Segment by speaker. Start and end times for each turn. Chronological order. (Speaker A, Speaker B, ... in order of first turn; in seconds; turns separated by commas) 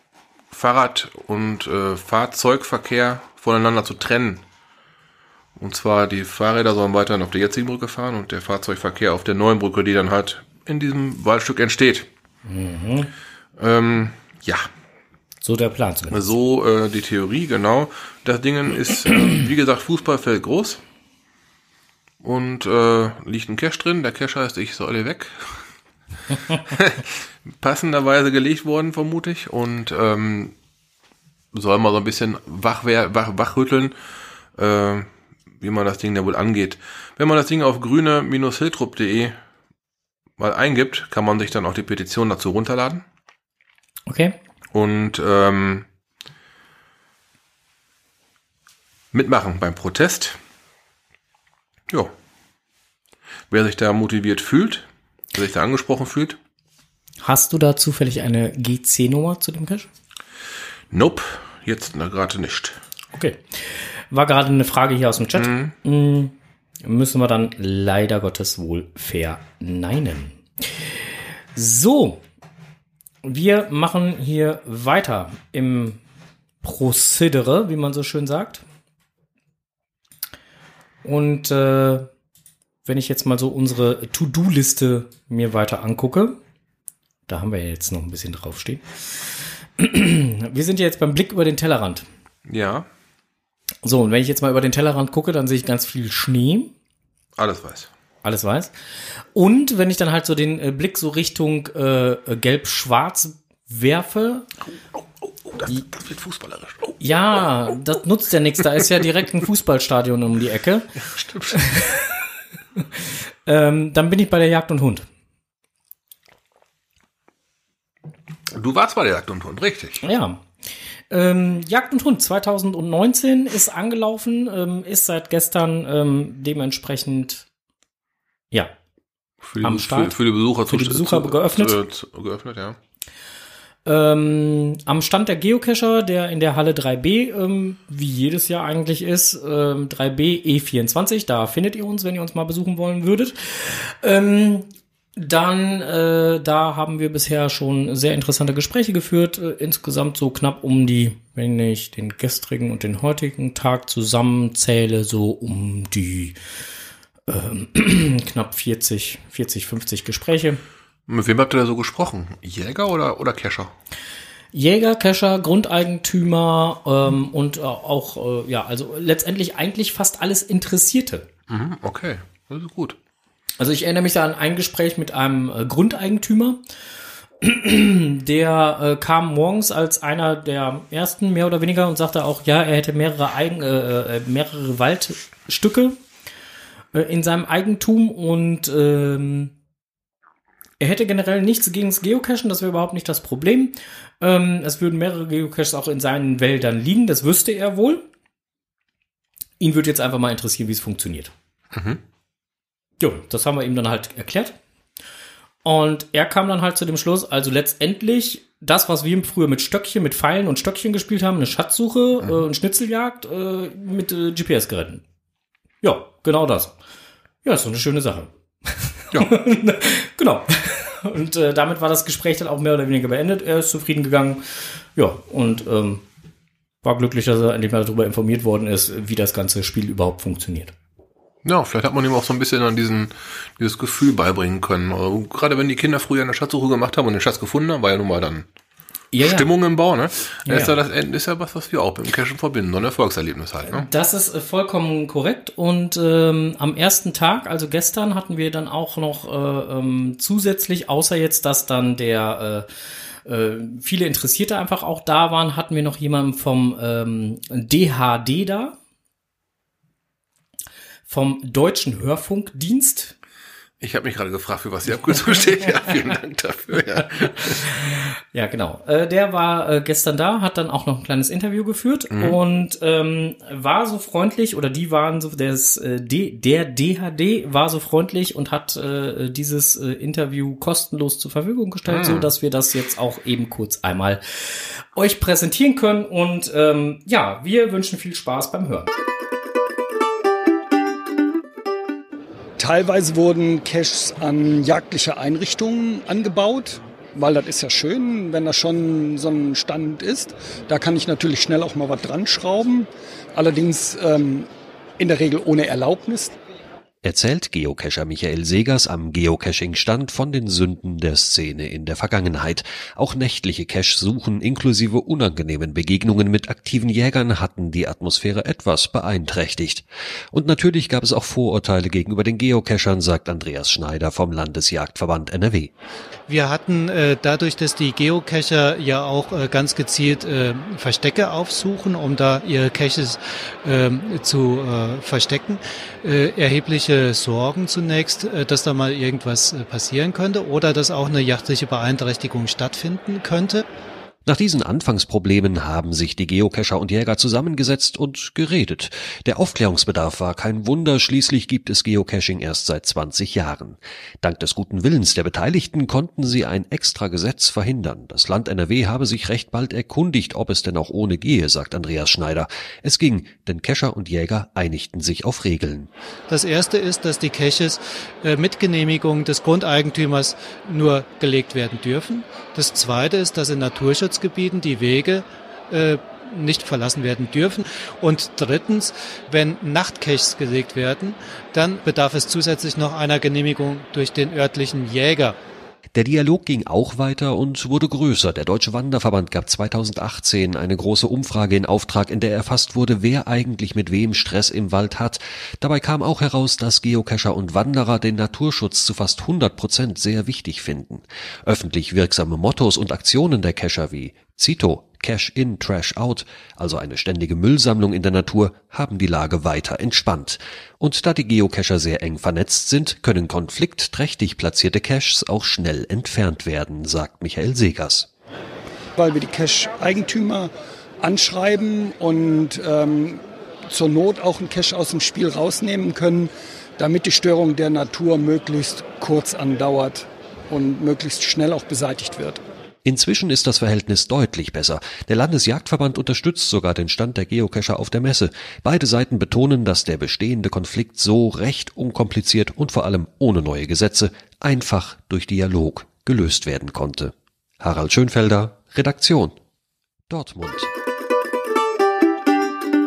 Speaker A: 0.5-4.4, Speaker A: 5.6-12.1, Speaker B: 12.5-13.1, Speaker A: 13.6-14.7, Speaker B: 15.4-16.2, Speaker A: 16.1-20.8, Speaker A: 22.2-25.6, Speaker A: 26.7-30.5, Speaker A: 31.5-33.9, Speaker A: 34.6-35.1, Speaker A: 35.6-39.4, Speaker A: 40.4-43.0, Speaker B: 44.1-44.4, Speaker A: 44.7-45.9, Speaker A: 49.1-50.4, Speaker A: 53.5-56.4, Speaker B: 57.2-59.9, Speaker A: 60.9-62.8, Speaker B: 63.1-70.9, Speaker A: 65.4-65.7, Speaker B: 71.5-72.2, Speaker B: 73.2-76.0, Speaker B: 76.6-78.6, Speaker B: 81.0-82.1, Speaker B: 82.8-86.4, Speaker B: 87.3-92.1, Speaker A: 92.5-92.9, Speaker B: 93.8-96.7, Speaker A: 97.4-97.9, Speaker B: 98.2-98.7, Speaker B: 99.3-104.5, Speaker A: 105.5-107.0, Speaker B: 107.0-110.9, Speaker A: 111.1-111.6, Speaker B: 111.5-112.2, Speaker B: 112.8-115.0, Speaker A: 118.5-120.0, Speaker B: 120.0-120.4, Speaker B: 121.1-127.5, Speaker A: 129.4-132.8, Speaker B: 129.6-130.2, Speaker B: 130.7-131.8, Speaker B: 133.9-156.4, Speaker B: 157.3-160.6, Speaker A: 161.1-163.7, Speaker B: 164.5-171.3, Speaker A: 171.5-173.0, Speaker B: 173.6-176.6, Speaker B: 177.4-186.0, Speaker B: 186.9-189.5, Speaker B: 190.8-198.0, Speaker B: 199.6-201.3, Speaker A: 201.7-202.0, Speaker B: 203.0-204.6, Speaker B: 205.6-215.0, Speaker B: 215.8-216.7, Speaker B: 217.4-226.0, Speaker B: 226.8-230.7, Speaker A: 231.4-238.5, Speaker B: 239.1-239.5, Speaker A: 239.2-243.9, Speaker B: 240.5-240.8, Speaker B: 243.7-252.7, Speaker B: 253.2-258.8, Speaker B: 261.1-263.1, Speaker A: 263.8-267.6, Speaker B: 267.5-288.9, Speaker A: 272.1-272.4, Speaker A: 281.9-282.3, Speaker C: 292.6-304.5, Speaker C: 305.0-306.3, Speaker D: 307.0-325.7, Speaker E: 326.3-343.6, Speaker D: 344.2-365.9, Speaker E: 366.3-385.4, Speaker D: 385.9-418.1, Speaker C: 419.0-420.5, Speaker C: 421.0-432.4, Speaker D: 432.9-449.4, Speaker D: 450.1-450.7